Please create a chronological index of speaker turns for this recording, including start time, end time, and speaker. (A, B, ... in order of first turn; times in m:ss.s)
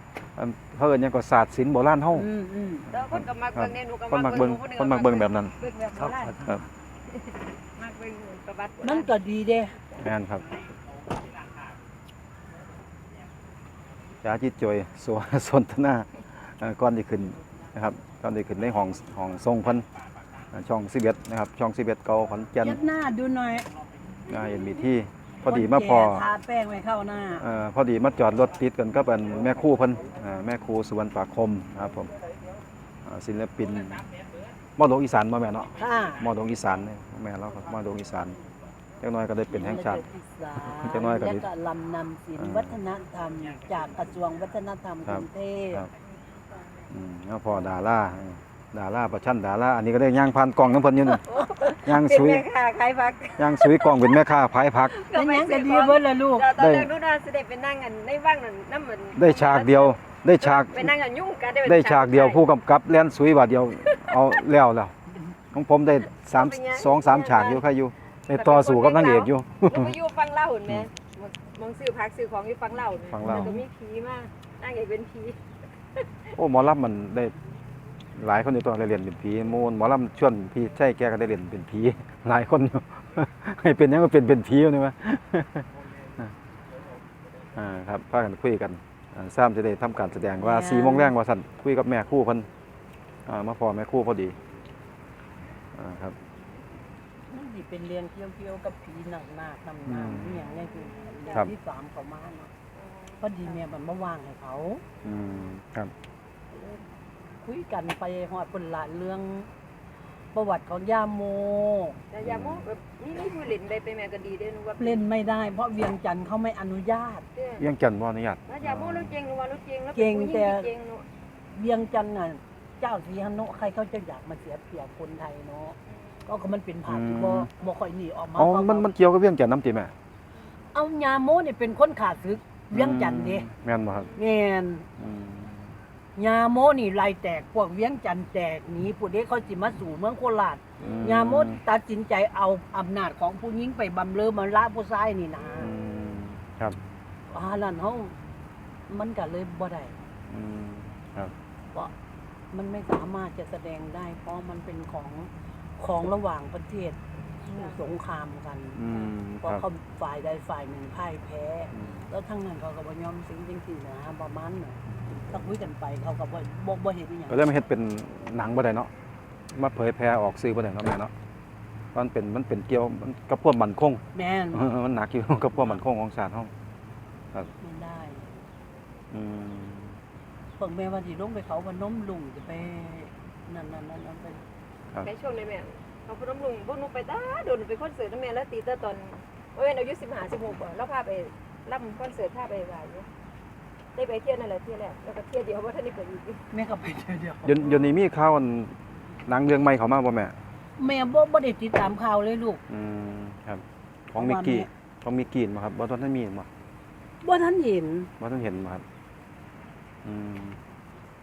0:00.4-0:02.3 A
0:02.1-0:02.8 B
0:02.9-0:06.5 C
0:02.9-0:05.5 A
0:06.1-0:06.7 A
0:07.1-0:09.1 C
0:08.8-0:09.8 B
0:10.0-0:10.4 A
0:14.2-0:19.8 A
0:20.5-0:22.8 A
0:22.6-0:23.7 B
0:24.3-0:26.2 A
0:24.3-0:24.9 C
0:25.5-0:27.5 B
0:27.4-0:32.1 A
0:33.0-0:34.1 A
0:34.8-0:38.4 A
0:35.8-0:36.2 B
0:39.0-0:40.0 A
0:39.5-0:45.8 B
0:40.6-0:41.5 A
0:42.4-0:42.8 A
0:45.0-0:45.9 A
0:46.9-0:51.3 A
0:51.2-0:54.2 C
0:51.8-0:52.5 A
0:53.4-0:55.0 A
0:54.9-1:02.4 C
0:55.1-0:56.5 B
0:56.5-0:56.9 A
0:59.2-1:00.9 A
1:01.6-1:04.9 A
1:03.8-1:04.2 C
1:05.5-1:10.0 A
1:06.1-1:07.6 C
1:08.3-1:15.4 C
1:13.1-1:13.5 A
1:13.2-1:13.6 B
1:16.0-1:16.3 C
1:16.4-1:17.3 A
1:18.2-1:26.3 A
1:27.5-1:32.5 A
1:30.4-1:31.2 B
1:33.3-1:34.4 A
1:35.7-1:36.2 A
1:37.3-1:42.5 B
1:39.8-1:40.5 A
1:40.7-1:41.5 C
1:42.7-1:43.6 C
1:43.2-1:44.8 B
1:45.0-1:45.9 A
1:46.5-1:46.8 B
1:47.4-1:49.5 B
1:50.3-1:52.0 B
1:52.1-1:55.0 C
1:52.2-1:52.7 A
1:54.8-1:57.2 B
1:57.3-1:57.7 C
1:57.6-1:59.2 A
1:58.5-2:01.0 C
1:59.9-2:00.7 B
2:01.5-2:08.9 B
2:05.9-2:06.2 C
2:06.9-2:07.5 A
2:08.4-2:09.9 A
2:10.7-2:13.5 B
2:12.7-2:14.1 A
2:13.9-2:14.2 C
2:14.2-2:14.8 B
2:15.0-2:15.7 A
2:16.2-2:25.7 B
2:20.8-2:21.6 A
2:25.6-2:26.8 A
2:27.3-2:28.2 B
2:28.9-2:30.0 B
2:30.3-2:31.3 A
2:32.5-2:47.5 B
2:37.4-2:37.8 C
2:38.8-2:39.6 A
2:41.7-2:42.0 A
2:47.3-2:48.9 A
2:49.5-2:51.1 A
2:51.9-2:56.5 A
2:54.1-2:54.7 B
2:57.6-2:58.4 B
2:59.1-3:00.0 A
3:00.6-3:04.4 B
3:05.0-3:13.1 C
3:14.0-3:16.4 C
3:16.5-3:17.8 B
3:17.4-3:18.7 A
3:19.3-3:20.3 A
3:20.8-3:22.6 B
3:22.7-3:26.5 A
3:24.2-3:24.7 B
3:27.2-3:28.1 B
3:28.2-3:28.8 A
3:30.0-3:30.6 A